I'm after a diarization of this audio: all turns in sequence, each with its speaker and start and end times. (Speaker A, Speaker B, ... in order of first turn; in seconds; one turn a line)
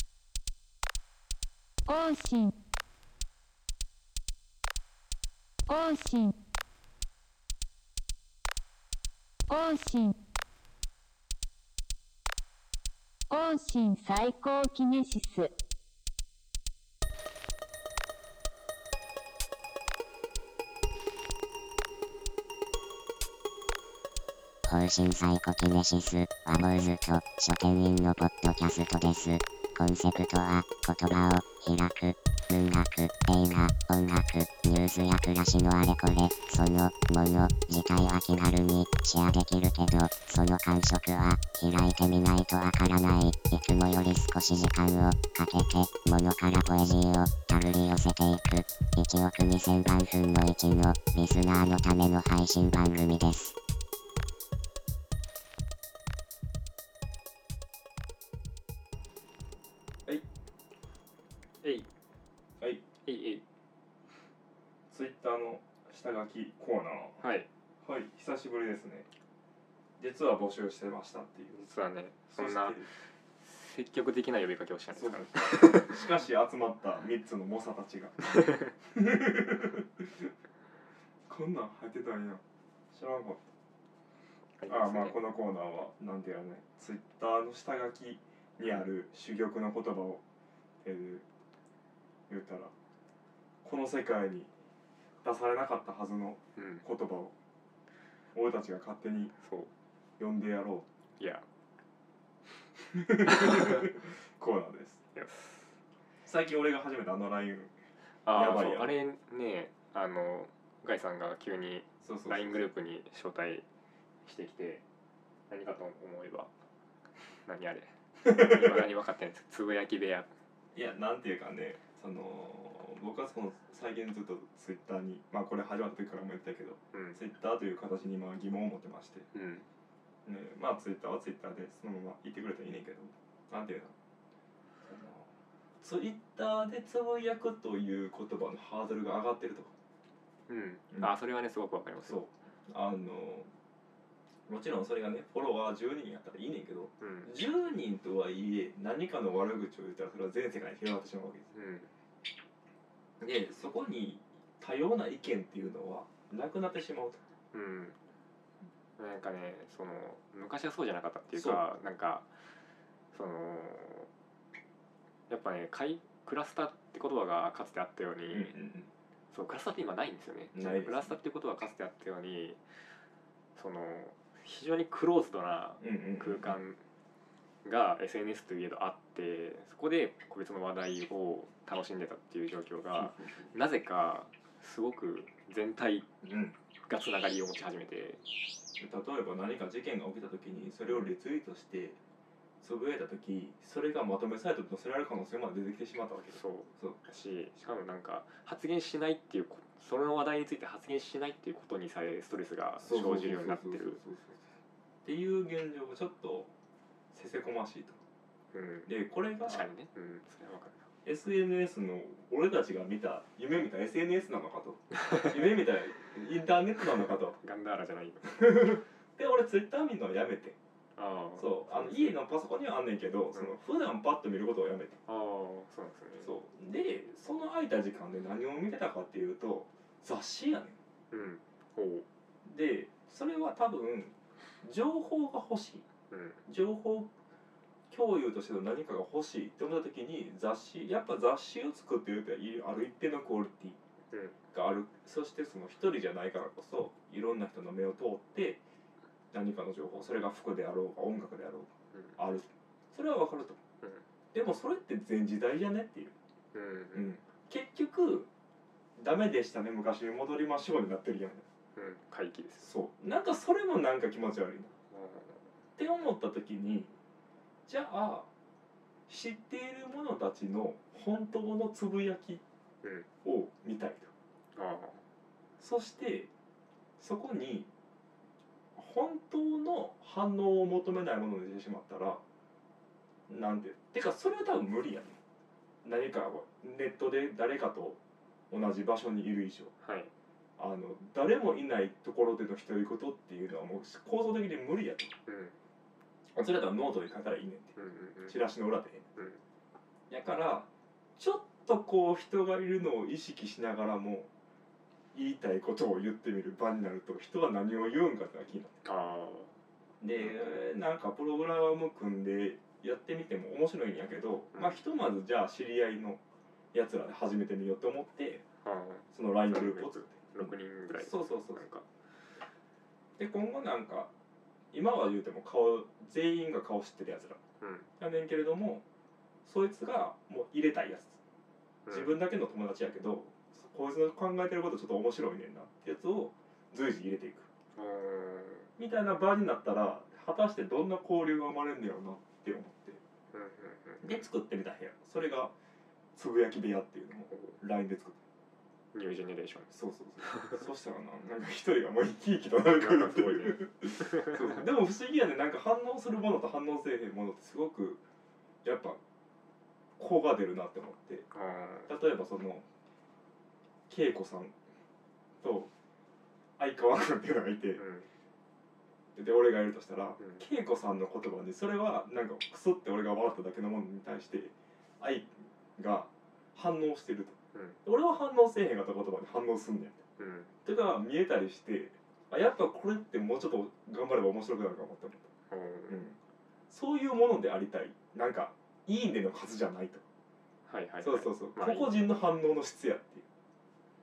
Speaker A: 1.9-2.5
Speaker A: 5.7-6.3
Speaker A: 9.5-10.2
Speaker A: 13.3-15.5
Speaker B: 24.6-53.5
Speaker C: 61.6-61.9
Speaker C: 63.0-63.4
Speaker D: 64.9-67.2
Speaker C: 67.2-67.5
Speaker D: 67.8-69.1
Speaker D: 70.0-71.7
Speaker C: 71.5-76.0
Speaker D: 72.3-72.9
Speaker D: 74.9-80.3
Speaker D: 81.3-83.5
Speaker C: 84.6-85.2
Speaker D: 84.7-90.2
Speaker D: 90.8-91.2
Speaker D: 92.3-92.7
Speaker D: 93.6-94.5
Speaker D: 95.2-97.3
Speaker C: 96.6-96.8
Speaker D: 98.3-99.3
Speaker C: 99.4-99.7
Speaker D: 100.2-100.8
Speaker C: 101.2-101.4
Speaker D: 102.8-105.0
Speaker C: 105.1-105.7
Speaker D: 106.2-107.7
Speaker C: 108.2-113.6
Speaker D: 108.3-108.9
Speaker D: 112.0-112.7
Speaker C: 114.2-114.8
Speaker C: 115.5-116.5
Speaker C: 117.5-120.3
Speaker D: 120.7-129.3
Speaker C: 126.9-127.2
Speaker C: 129.3-129.7
Speaker D: 130.2-133.9
Speaker D: 134.8-135.3
Speaker D: 135.8-139.7
Speaker C: 140.5-142.2
Speaker D: 142.0-143.5
Speaker D: 144.5-151.5
Speaker C: 147.0-147.3
Speaker C: 151.5-151.9
Speaker D: 153.2-157.2
Speaker C: 157.5-158.0
Speaker C: 159.0-162.3
Speaker D: 161.3-161.6
Speaker C: 163.1-164.1
Speaker C: 165.3-168.5
Speaker D: 168.3-168.9
Speaker C: 169.3-172.6
Speaker D: 170.5-171.1
Speaker C: 173.6-176.8
Speaker D: 175.8-176.5
Speaker C: 177.6-186.1
Speaker D: 183.1-183.5
Speaker D: 186.2-186.5
Speaker C: 186.9-188.2
Speaker D: 188.8-192.0
Speaker D: 192.6-197.0
Speaker C: 196.3-204.0
Speaker D: 202.8-204.4
Speaker D: 205.0-206.5
Speaker D: 207.1-208.0
Speaker C: 208.5-208.9
Speaker D: 208.9-209.7
Speaker C: 209.4-210.9
Speaker D: 211.0-217.4
Speaker C: 217.4-218.5
Speaker D: 218.3-220.6
Speaker C: 220.9-222.2
Speaker D: 221.4-225.0
Speaker C: 225.1-226.3
Speaker D: 226.2-230.8
Speaker C: 231.1-232.1
Speaker D: 232.4-235.8
Speaker C: 236.1-236.4
Speaker D: 236.4-237.1
Speaker D: 237.9-243.8
Speaker C: 244.1-244.4
Speaker D: 244.5-248.6
Speaker D: 249.3-253.6
Speaker C: 251.9-252.2
Speaker D: 254.3-256.1
Speaker C: 256.5-257.2
Speaker D: 256.9-258.3
Speaker D: 259.0-261.4
Speaker C: 261.7-262.7
Speaker D: 262.6-264.8
Speaker C: 264.9-265.5
Speaker D: 265.8-266.9
Speaker D: 267.7-268.3
Speaker D: 269.1-272.4
Speaker C: 272.8-273.1
Speaker D: 273.2-274.1
Speaker C: 274.5-275.0
Speaker D: 275.6-276.3
Speaker D: 277.0-277.7
Speaker D: 278.7-282.2
Speaker D: 283.3-285.2
Speaker D: 285.8-289.7
Speaker C: 289.8-290.1
Speaker D: 290.6-295.1
Speaker C: 295.2-295.6
Speaker D: 296.3-299.1
Speaker C: 297.8-298.4
Speaker C: 299.1-299.4
Speaker D: 300.1-304.3
Speaker D: 305.1-308.8
Speaker C: 308.8-309.6
Speaker D: 310.0-316.2
Speaker D: 316.7-318.4
Speaker C: 318.6-321.9
Speaker D: 319.1-321.6
Speaker D: 323.2-324.1
Speaker D: 324.7-327.4
Speaker C: 327.6-327.9
Speaker D: 328.0-328.8
Speaker D: 329.4-331.2
Speaker C: 331.9-332.1
Speaker D: 331.9-337.5
Speaker C: 337.7-338.7
Speaker D: 338.8-343.0
Speaker C: 343.3-344.2
Speaker D: 344.0-345.5
Speaker D: 346.1-348.2
Speaker C: 348.9-349.7
Speaker D: 349.7-358.0
Speaker C: 350.3-350.6
Speaker C: 352.7-354.6
Speaker D: 358.6-359.0
Speaker D: 360.0-361.3
Speaker C: 361.3-361.9
Speaker D: 361.9-362.6
Speaker D: 363.9-364.5
Speaker D: 365.4-365.7
Speaker D: 366.6-367.8
Speaker C: 367.8-368.1
Speaker D: 369.1-380.0
Speaker C: 377.5-377.8
Speaker C: 380.2-380.5
Speaker D: 380.6-385.3
Speaker C: 385.5-386.0
Speaker D: 385.9-386.2
Speaker D: 386.7-390.1
Speaker C: 390.7-392.1
Speaker D: 391.0-393.2